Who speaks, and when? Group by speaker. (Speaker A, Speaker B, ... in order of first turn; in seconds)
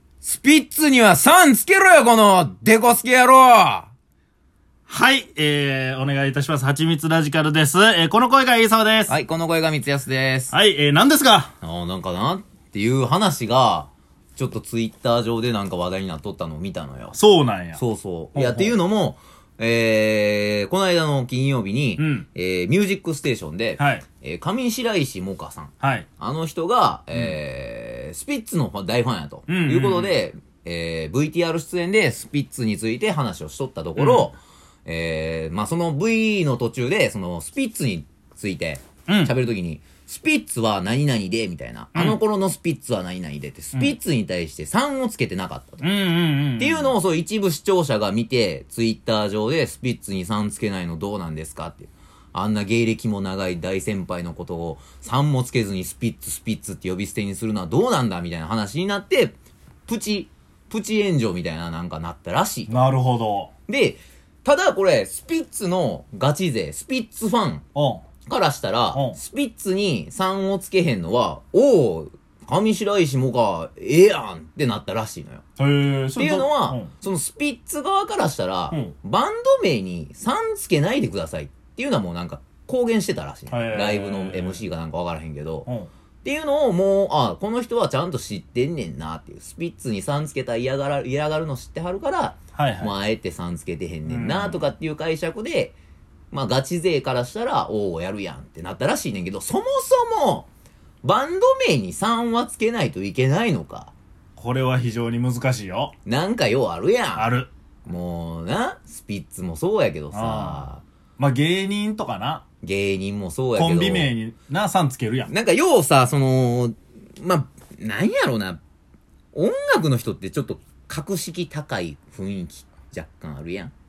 Speaker A: 0.2-3.9, 9.1-10.5, 11.6-17.2, 17.8-45.9, 46.6-59.4, 59.9-62.7, 63.7-67.7, 68.3-75.4, 76.2-85.7, 86.2-95.8, 96.3-100.5, 101.0-103.9, 106.0-107.3, 107.8-110.8, 112.6-114.1, 115.3-118.6, 119.3-123.7
Speaker B: 4.9-9.1, 10.5-11.5, 17.1-17.8, 18.4-18.8, 22.0-22.3, 23.8-24.1, 25.8-26.1, 29.5-30.2, 34.0-34.3, 39.1-39.3, 41.9-42.2, 45.8-46.9, 62.7-63.5, 67.8-68.0, 68.9-69.2, 75.6-76.9, 83.5-84.6, 92.5-92.9, 94.1-94.7, 104.4-105.9, 107.2-107.5, 110.1-110.7, 111.2-112.4, 113.6-115.3